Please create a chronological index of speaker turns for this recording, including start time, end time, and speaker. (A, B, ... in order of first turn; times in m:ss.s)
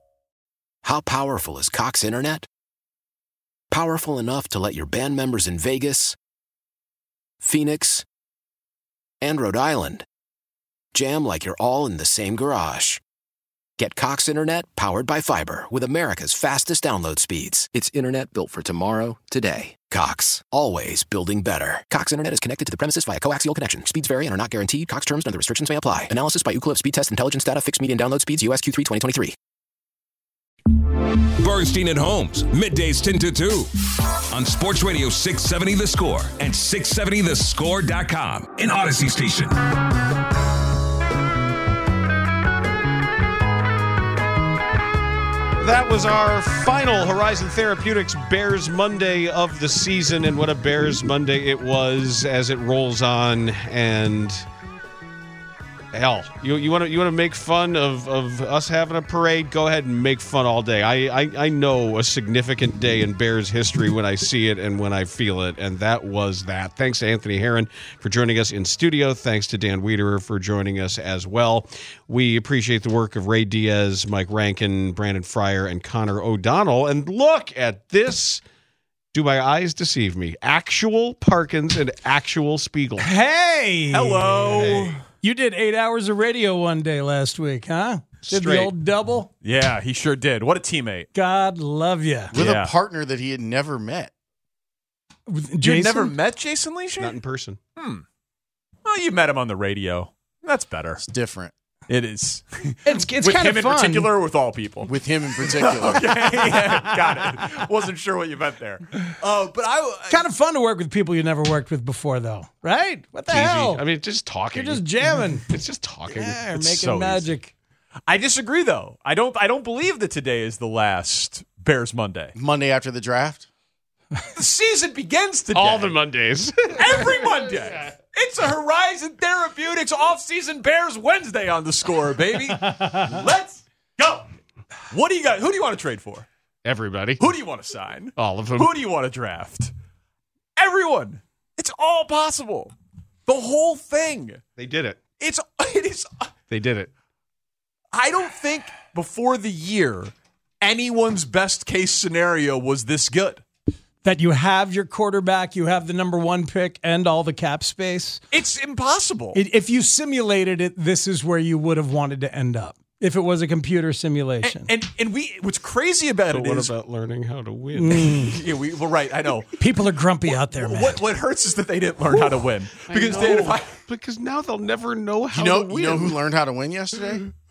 0:00.8-0:02.4 A
0:03.7-0:06.2 A
0:07.4-0:08.0 A
0:09.2-0:10.0 A
0:10.9-0:13.0 A
0:13.8-0:29.4 A
0:30.7-0:39.9 B
0:45.6-0:54.4 C
0:55.9-1:18.4 C
1:19.1-1:23.1 C
1:23.0-1:29.3 D
1:23.9-1:25.0 E
1:24.5-1:25.0 C
1:28.2-1:28.7 C
1:29.4-1:31.1 E
1:31.1-1:32.3 D
1:32.3-1:32.7 E
1:32.3-1:34.1 F
1:35.3-1:36.1 D
1:35.6-1:37.2 E
1:37.0-1:37.6 C
1:37.8-1:38.0 E
1:38.8-1:41.0 E
1:41.0-1:41.5 F
1:41.9-1:50.2 E
1:42.8-1:44.1 D
1:44.8-1:46.1 F
1:46.6-1:46.9 D
1:50.1-1:53.8 D
1:53.3-1:56.4 C
1:54.5-1:55.4 D
1:56.1-1:57.5 D
1:56.6-1:57.3 E
1:58.1-2:02.3 E
2:02.3-2:03.5 F
2:04.3-2:05.9 E
2:05.5-2:07.3 C
2:06.8-2:14.3 E
2:12.7-2:13.0 D
2:14.9-2:16.3 E
2:16.6-2:17.2 C
2:17.2-2:19.7 E
2:18.2-2:18.7 C
2:20.6-2:22.7 E
2:23.3-2:24.4 E
2:24.6-2:25.0 C
2:25.2-2:26.3 E
2:26.5-2:26.9 C
2:27.9-2:33.4 E
2:34.0-2:38.2 D
2:38.3-2:39.4 E
2:39.3-2:44.7 D
2:44.4-2:46.7 E
2:46.3-2:48.4 C
2:47.7-2:48.3 D
2:48.2-2:49.5 E
2:49.6-2:51.0 D
2:50.3-2:53.8 E
2:52.9-2:56.1 C
2:55.3-2:57.3 F